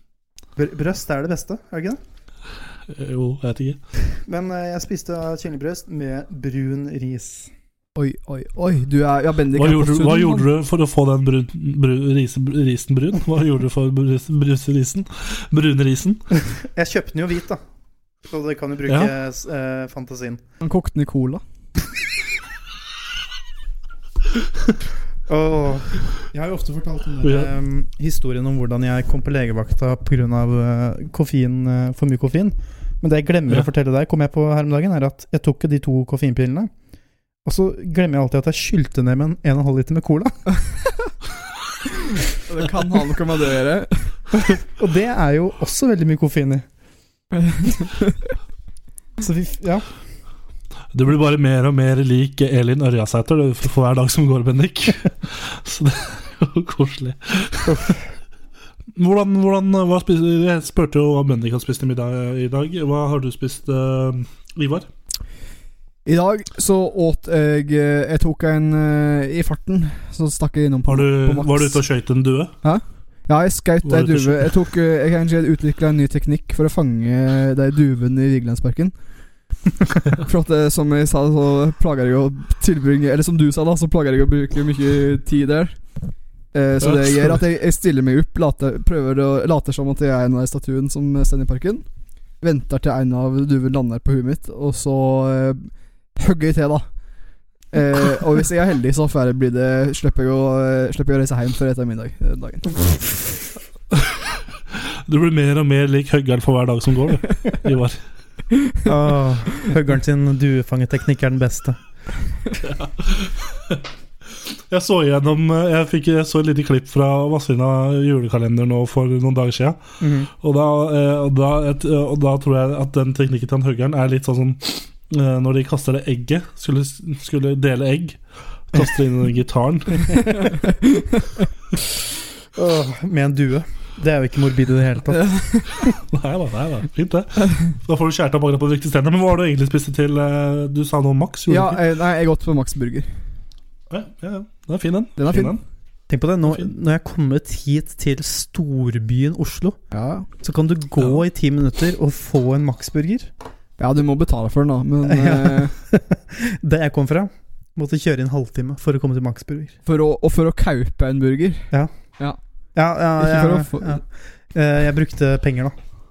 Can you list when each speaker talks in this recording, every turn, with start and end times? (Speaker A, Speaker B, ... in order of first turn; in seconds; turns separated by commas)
Speaker A: 0.6-2.0, Speaker B: 2.9-3.8, Speaker A: 4.2-7.5, Speaker C: 8.0-10.5, Speaker B: 9.5-16.2, Speaker A: 16.4-17.6, Speaker A: 18.2-20.4, Speaker B: 18.9-19.1, Speaker C: 20.6-21.4, Speaker A: 25.3-36.7, Speaker B: 27.2-27.5, Speaker A: 37.4-40.4, Speaker C: 42.5-44.2, Speaker A: 44.4-46.6, Speaker C: 47.3-48.2, Speaker A: 49.2-49.9, Speaker B: 50.9-58.0, Speaker A: 57.7-57.9, Speaker B: 58.9-64.9, Speaker C: 66.0-71.8, Speaker B: 70.9-72.5, Speaker C: 72.6-78.9, Speaker B: 73.8-74.5, Speaker C: 80.2-85.8, Speaker C: 86.5-91.8, Speaker B: 86.8-87.4, Speaker C: 92.4-96.8, Speaker C: 97.7-102.8, Speaker B: 105.0-108.0, Speaker A: 108.8-111.8, Speaker B: 112.6-113.8, Speaker B: 114.7-119.8, Speaker A: 120.0-120.3, Speaker B: 120.4-130.6, Speaker A: 132.5-135.9, Speaker C: 135.2-135.6, Speaker B: 135.9-141.8, Speaker C: 141.5-143.1, Speaker B: 143.9-145.6, Speaker C: 145.2-145.6, Speaker A: 146.1-149.8, Speaker C: 149.9-150.3, Speaker A: 150.4-153.3, Speaker C: 153.8-155.7, Speaker A: 155.0-159.7, Speaker C: 159.8-162.4, Speaker A: 162.7-165.8, Speaker C: 163.2-164.0